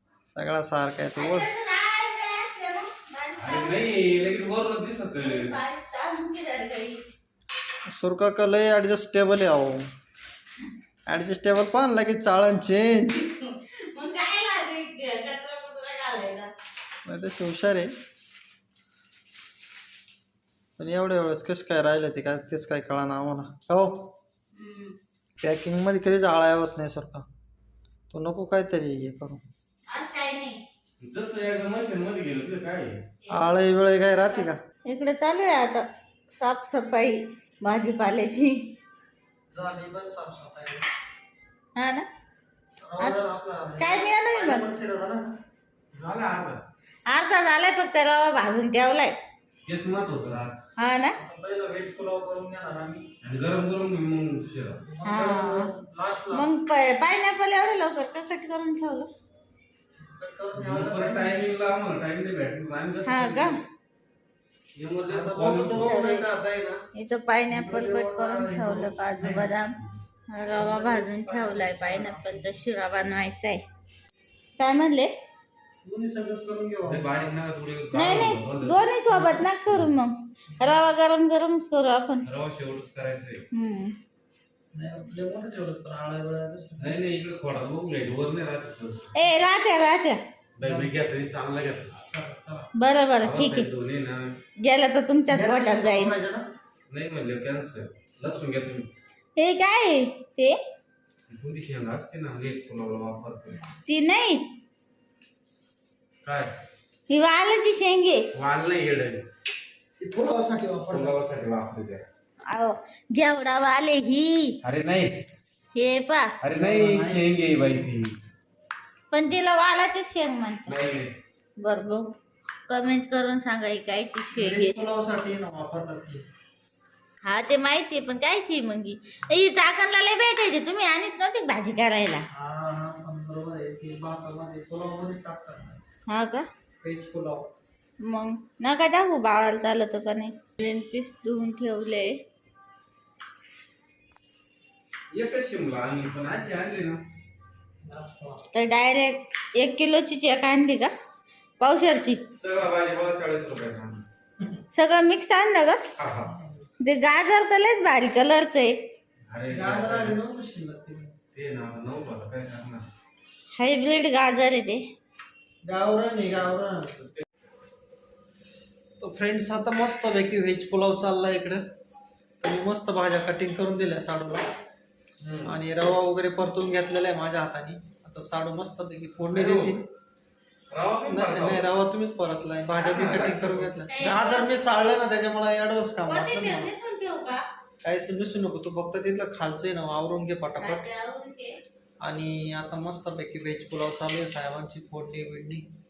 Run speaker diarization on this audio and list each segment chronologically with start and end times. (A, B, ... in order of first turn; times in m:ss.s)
0:00.3-0:01.5 A
0:01.2-0:03.9 B
0:03.4-0:05.6 C
0:05.2-0:07.0 B
0:07.9-0:09.8 A
0:11.1-0:13.2 A
0:13.1-0:16.5 B
0:17.0-0:17.9 A
0:20.8-0:24.1 A
0:24.6-0:24.9 B
0:25.4-0:27.2 A
0:28.1-0:29.4 A
0:29.9-0:30.6 B
0:31.0-0:33.0 C
0:33.2-0:33.5 B
0:33.3-0:34.6 A
0:34.8-0:38.6 B
0:39.5-0:40.8 A
0:41.8-0:42.1 B
0:42.8-0:45.3 A
0:43.8-0:44.6 B
0:45.9-0:46.6 C
0:47.0-0:49.1 B
0:49.6-0:50.6 C
0:50.8-0:51.2 B
0:51.1-0:53.1 A
0:53.2-0:54.8 C
0:54.8-0:56.5 A
0:55.0-0:55.7 B
0:56.3-0:59.1 B
1:00.0-1:01.4 A
1:00.5-1:03.6 C
1:03.0-1:03.6 B
1:04.8-1:06.0 C
1:05.0-1:06.8 A
1:05.8-1:06.2 B
1:06.9-1:09.7 B
1:07.5-1:09.5 A
1:10.3-1:13.6 B
1:10.5-1:12.6 A
1:14.6-1:15.1 B
1:15.8-1:17.3 A
1:16.8-1:19.9 C
1:17.9-1:22.2 B
1:22.2-1:23.4 C
1:23.5-1:23.9 B
1:24.7-1:27.0 A
1:26.8-1:29.2 C
1:29.1-1:30.2 B
1:30.6-1:32.0 C
1:30.6-1:30.9 A
1:32.0-1:32.7 A
1:32.8-1:33.7 B
1:33.2-1:34.4 C
1:34.6-1:36.1 B
1:35.3-1:36.5 A
1:36.9-1:38.9 C
1:39.4-1:40.6 B
1:41.3-1:43.6 C
1:43.8-1:44.4 B
1:46.2-1:46.5 C
1:47.1-1:48.2 B
1:48.3-1:49.2 C
1:50.0-1:51.1 A
1:50.9-1:52.0 C
1:52.5-1:54.6 B
1:54.6-1:55.2 C
1:55.7-1:56.3 B
1:56.4-1:58.2 C
1:56.5-1:57.9 A
1:59.1-2:00.8 B
2:00.7-2:01.1 C
2:01.6-2:02.1 B
2:02.7-2:04.8 B
2:04.3-2:06.2 A
2:07.2-2:12.2 B
2:12.3-2:15.8 A
2:16.1-2:16.5 B
2:16.8-2:17.5 A
2:18.0-2:22.2 B
2:25.1-2:27.0 C
2:27.8-2:28.4 A
2:28.5-2:30.9 B
2:31.6-2:32.2 B
2:32.3-2:34.0 C
2:34.7-2:35.8 B
2:36.0-2:36.3 C
2:36.2-2:36.6 A
2:36.8-2:38.8 B
2:39.3-2:40.2 C
2:39.5-2:41.1 A
2:41.3-2:42.8 C
2:43.5-2:44.8 B
2:45.6-2:46.9 A
2:47.0-2:47.2 C
2:49.0-2:51.6 A
2:52.4-2:54.5 A
2:55.2-2:55.6 C
2:55.4-2:59.8 A
2:59.3-2:59.8 C
3:00.7-3:01.7 C
3:01.0-3:06.7 A
3:02.8-3:03.7 C
3:03.9-3:04.5 B
3:06.0-3:07.4 B
3:07.8-3:10.8 A
3:10.6-3:11.6 B
3:12.0-3:15.6 A